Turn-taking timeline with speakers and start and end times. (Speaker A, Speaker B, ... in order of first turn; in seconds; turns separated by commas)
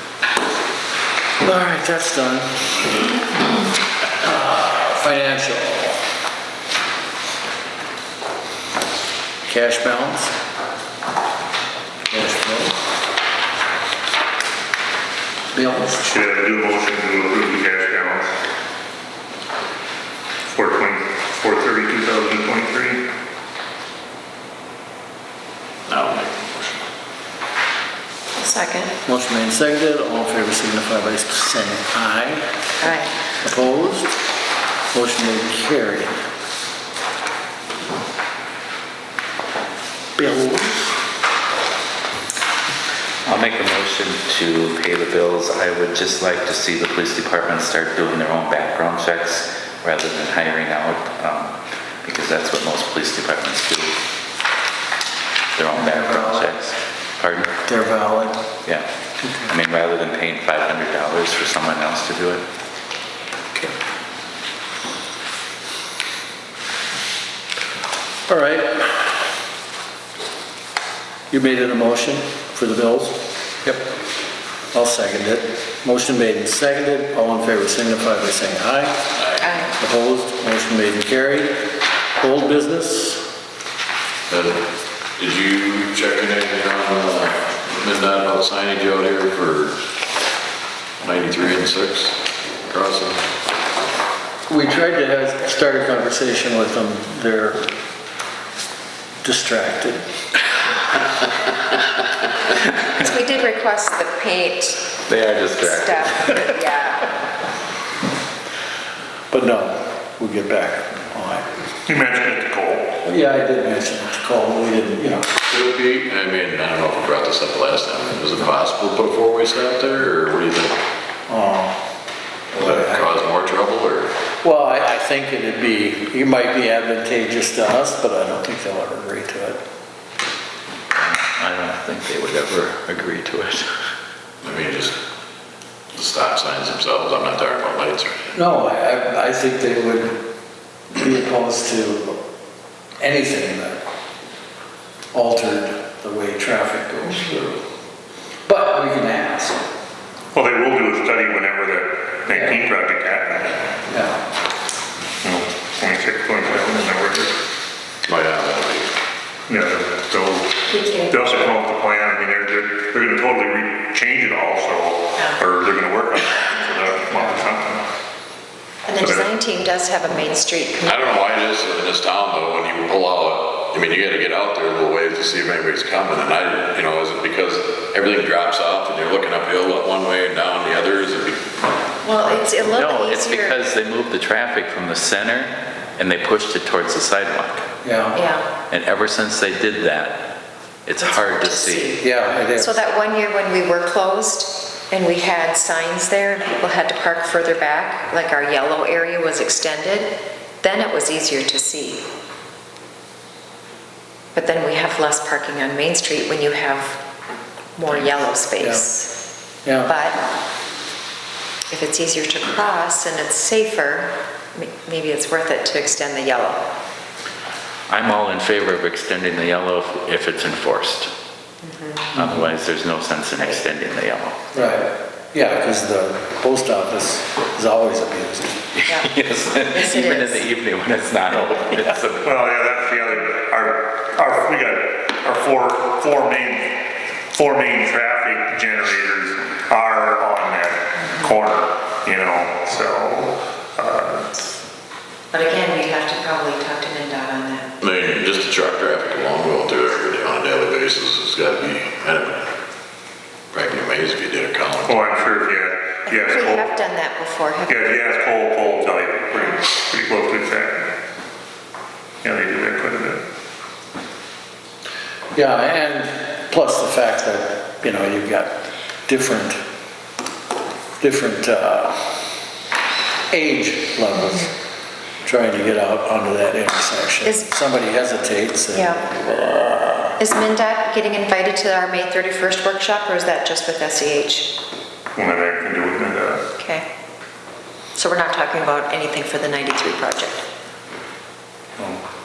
Speaker A: 1.4-3.0, Speaker A: 4.2-6.0, Speaker A: 9.4-10.3, Speaker A: 12.1-12.8, Speaker A: 15.5-16.0, Speaker B: 16.0-18.3, Speaker B: 20.5-23.0, Speaker C: 25.9-26.9, Speaker D: 28.4-28.9, Speaker A: 29.0-32.5, Speaker D: 32.8-33.1, Speaker A: 33.4-34.1, Speaker A: 34.9-36.2, Speaker A: 40.1-41.0, Speaker E: 43.2-54.0, Speaker E: 55.5-57.6, Speaker A: 55.7-56.5, Speaker A: 57.6-58.4, Speaker A: 59.2-59.5, Speaker E: 59.5-62.5, Speaker A: 68.3-69.2, Speaker A: 71.3-73.8, Speaker A: 74.7-79.0, Speaker C: 79.1-79.5, Speaker D: 79.4-79.7, Speaker A: 79.8-81.6, Speaker A: 82.2-83.3, Speaker C: 84.3-84.6, Speaker C: 85.2-89.8, Speaker C: 91.0-93.2, Speaker A: 94.5-97.7, Speaker A: 99.2-100.0, Speaker D: 102.9-105.0, Speaker E: 105.0-106.4, Speaker D: 105.6-107.1, Speaker A: 109.3-111.5, Speaker B: 111.9-113.0, Speaker A: 113.0-115.3, Speaker C: 115.5-120.8, Speaker A: 121.3-121.8, Speaker A: 122.5-123.0, Speaker C: 122.5-124.1, Speaker A: 124.4-129.6, Speaker E: 130.9-133.7, Speaker C: 134.4-135.0, Speaker C: 135.9-138.2, Speaker A: 138.3-140.2, Speaker A: 140.9-142.2, Speaker A: 143.0-143.8, Speaker A: 145.1-147.6, Speaker A: 148.4-149.6, Speaker B: 150.3-153.5, Speaker A: 152.3-152.6, Speaker A: 153.9-154.2, Speaker B: 155.2-157.3, Speaker C: 158.0-158.9, Speaker B: 159.5-167.8, Speaker D: 160.7-161.4, Speaker D: 168.9-171.2, Speaker B: 169.0-169.3, Speaker C: 170.8-181.6, Speaker D: 182.0-183.6, Speaker E: 182.6-187.7, Speaker A: 187.8-188.2, Speaker D: 188.1-188.5, Speaker E: 188.7-192.0, Speaker D: 191.0-202.0, Speaker A: 192.0-192.8, Speaker D: 204.3-207.0, Speaker D: 207.8-209.2, Speaker A: 208.6-208.8, Speaker A: 209.6-209.9, Speaker D: 209.8-210.2, Speaker D: 211.7-216.6, Speaker E: 217.9-221.1, Speaker D: 221.6-222.1, Speaker E: 222.1-224.4, Speaker A: 222.2-222.5, Speaker A: 224.5-228.7, Speaker E: 228.8-232.3, Speaker D: 228.8-229.1, Speaker D: 229.7-230.4, Speaker B: 232.2-244.3, Speaker D: 245.3-247.7, Speaker C: 247.8-252.5, Speaker C: 253.5-255.1, Speaker B: 254.8-256.7, Speaker D: 256.1-257.9, Speaker B: 257.6-260.9, Speaker B: 262.2-263.2, Speaker A: 265.3-269.6, Speaker A: 271.0-272.0, Speaker A: 273.3-274.5, Speaker A: 275.2-280.2, Speaker D: 278.7-279.0, Speaker D: 280.2-284.6, Speaker B: 285.1-286.4, Speaker D: 286.6-286.9, Speaker D: 287.9-290.4